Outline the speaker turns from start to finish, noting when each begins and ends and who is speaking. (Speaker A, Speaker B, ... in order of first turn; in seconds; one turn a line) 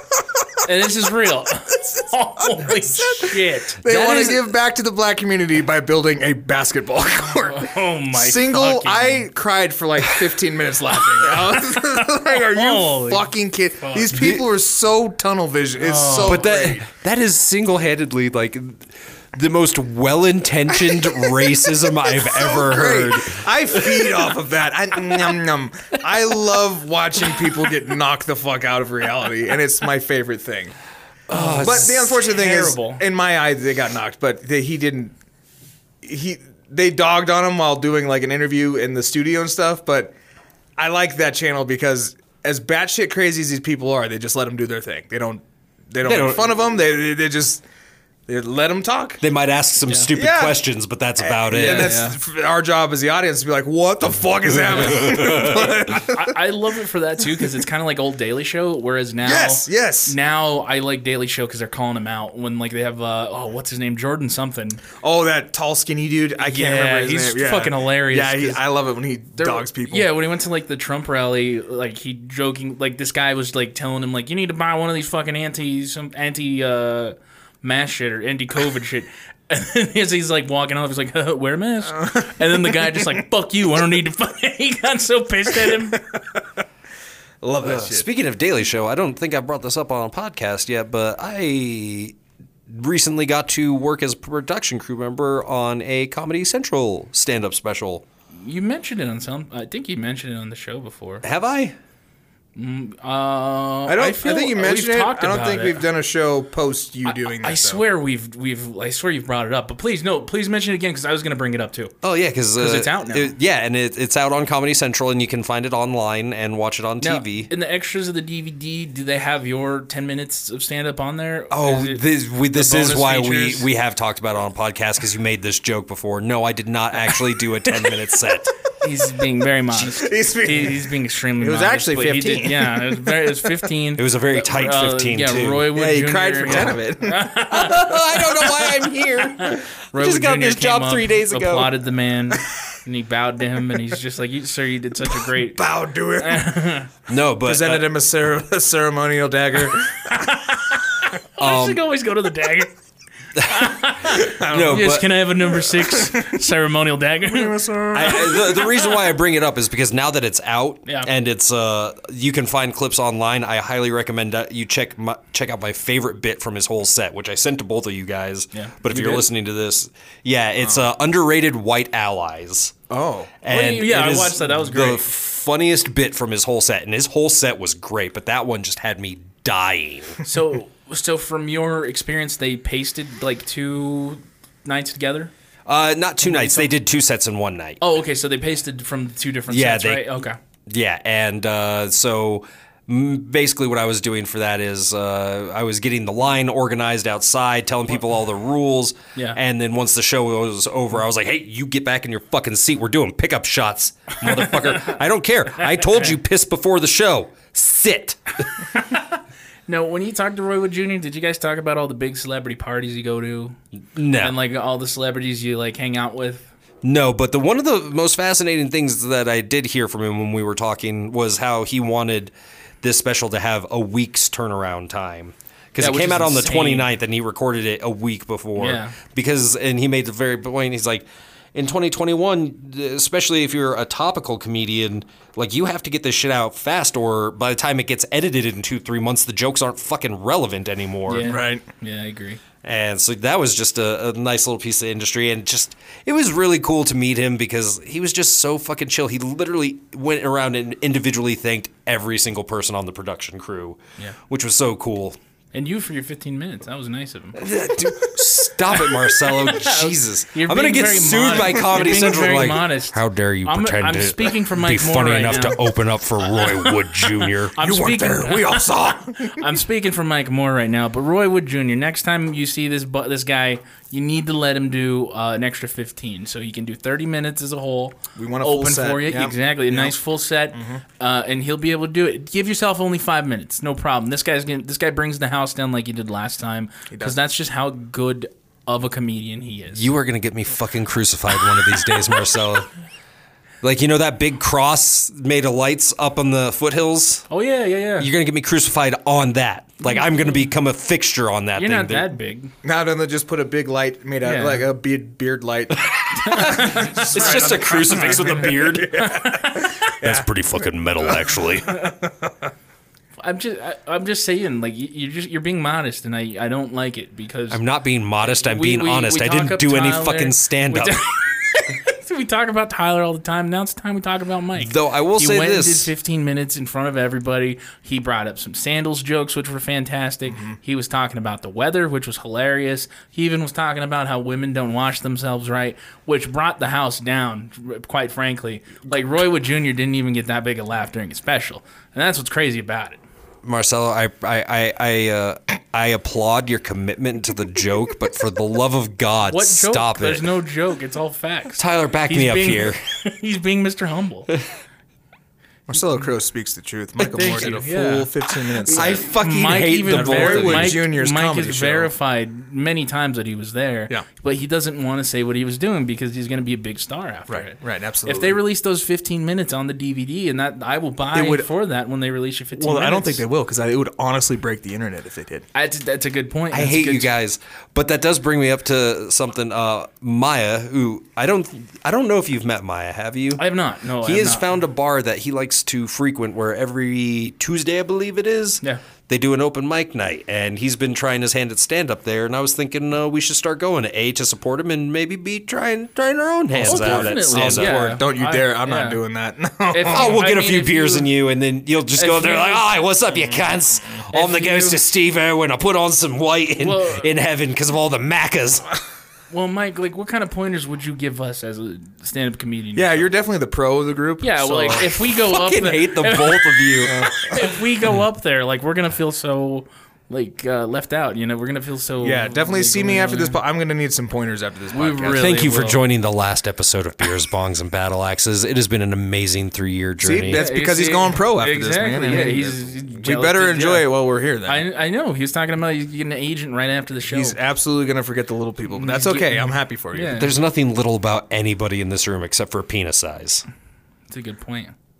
Speaker A: 0.6-3.8
Speaker B: 2.5-16.9
Speaker C: 3.8-4.3
Speaker A: 7.2-9.3
Speaker A: 11.2-14.3
Speaker C: 14.1-14.4
Speaker A: 15.8-16.4
Speaker C: 16.2-24.3
Speaker B: 22.0-30.7
Speaker C: 31.3-32.0
Speaker A: 31.3-33.0
Speaker B: 31.5-35.1
Speaker B: 36.0-40.1
Speaker B: 40.8-47.6
Speaker C: 46.0-46.5
Speaker B: 48.3-49.2
Speaker C: 49.2-52.0
Speaker B: 50.1-50.6
Speaker B: 51.2-56.3
Speaker A: 51.5-52.2
Speaker C: 54.7-55.7
Speaker A: 55.0-55.2
Speaker A: 55.9-64.8
Speaker B: 59.2-60.1
Speaker B: 65.0-70.1
Speaker A: 66.4-68.6
Speaker A: 69.4-86.0
Speaker B: 82.0-83.0
Speaker B: 85.9-86.4
Speaker B: 87.4-88.0
Speaker C: 87.6-92.2
Speaker C: 92.7-98.0
Speaker A: 98.4-101.2
Speaker C: 101.2-101.8
Speaker A: 102.5-105.8
Speaker B: 103.9-107.8
Speaker A: 107.0-111.9
Speaker C: 112.0-117.5
Speaker A: 112.5-113.3
Speaker A: 117.0-123.7
Speaker C: 121.5-128.5
Speaker A: 128.8-138.2
Speaker B: 129.8-133.3
Speaker C: 133.9-135.7
Speaker B: 135.7-137.3
Speaker C: 137.5-141.7
Speaker A: 139.3-145.6
Speaker B: 145.5-146.7
Speaker A: 146.2-146.9
Speaker C: 147.1-147.8
Speaker B: 147.4-150.5
Speaker A: 150.1-152.7
Speaker C: 151.4-151.8
Speaker C: 153.3-153.7
Speaker A: 153.4-158.7
Speaker B: 154.2-156.4
Speaker C: 154.5-155.1
Speaker B: 157.2-158.7
Speaker C: 157.9-172.7
Speaker A: 168.5-169.2
Speaker B: 172.9-173.3
Speaker C: 173.4-180.2
Speaker A: 173.5-175.0
Speaker A: 180.2-185.3
Speaker C: 185.7-187.8
Speaker A: 186.2-186.7
Speaker A: 187.8-190.4
Speaker C: 189.5-190.2
Speaker C: 190.7-208.5
Speaker A: 208.7-213.6
Speaker C: 213.9-214.3
Speaker A: 214.2-216.5
Speaker C: 216.8-241.3
Speaker A: 225.8-226.9
Speaker A: 228.6-229.0
Speaker A: 241.1-242.4
Speaker B: 241.2-241.6
Speaker C: 242.6-255.2
Speaker A: 255.5-258.1
Speaker C: 257.3-267.6
Speaker A: 258.7-265.6
Speaker A: 266.2-289.9
Speaker B: 267.6-269.5
Speaker B: 278.1-280.0
Speaker B: 280.5-280.8
Speaker B: 286.9-287.1
Speaker C: 289.7-292.7
Speaker C: 293.6-297.3
Speaker A: 297.3-298.1
Speaker C: 298.0-302.1
Speaker A: 301.6-302.5
Speaker B: 302.6-310.2
Speaker A: 304.2-304.6
Speaker C: 305.9-309.0
Speaker A: 306.1-309.9
Speaker C: 310.0-311.8
Speaker B: 311.8-312.3
Speaker A: 313.2-317.6
Speaker C: 317.5-321.0
Speaker A: 318.2-343.0
Speaker C: 324.6-325.9
Speaker C: 343.4-350.3
Speaker A: 349.3-354.3
Speaker C: 351.6-352.8
Speaker B: 355.7-359.1
Speaker A: 357.0-373.2
Speaker C: 358.7-360.8
Speaker B: 359.9-361.9
Speaker B: 367.3-368.4
Speaker B: 371.1-371.5
Speaker B: 372.6-375.4
Speaker A: 375.5-377.1
Speaker C: 376.5-383.4
Speaker A: 383.4-384.5
Speaker C: 384.0-398.0
Speaker B: 396.6-400.2
Speaker A: 396.6-399.0
Speaker A: 399.7-401.1
Speaker C: 399.9-408.7
Speaker A: 401.9-402.7
Speaker A: 404.1-404.8
Speaker A: 406.6-407.1
Speaker A: 409.3-413.1
Speaker B: 412.7-414.8
Speaker A: 414.2-423.4
Speaker C: 414.5-417.4
Speaker B: 416.9-417.3
Speaker B: 422.0-425.3
Speaker A: 424.7-425.8
Speaker C: 425.2-430.4
Speaker B: 430.0-434.6
Speaker A: 430.3-433.9
Speaker A: 434.4-437.4
Speaker B: 437.1-440.2
Speaker A: 438.7-440.3
Speaker C: 440.1-443.4
Speaker A: 444.1-444.7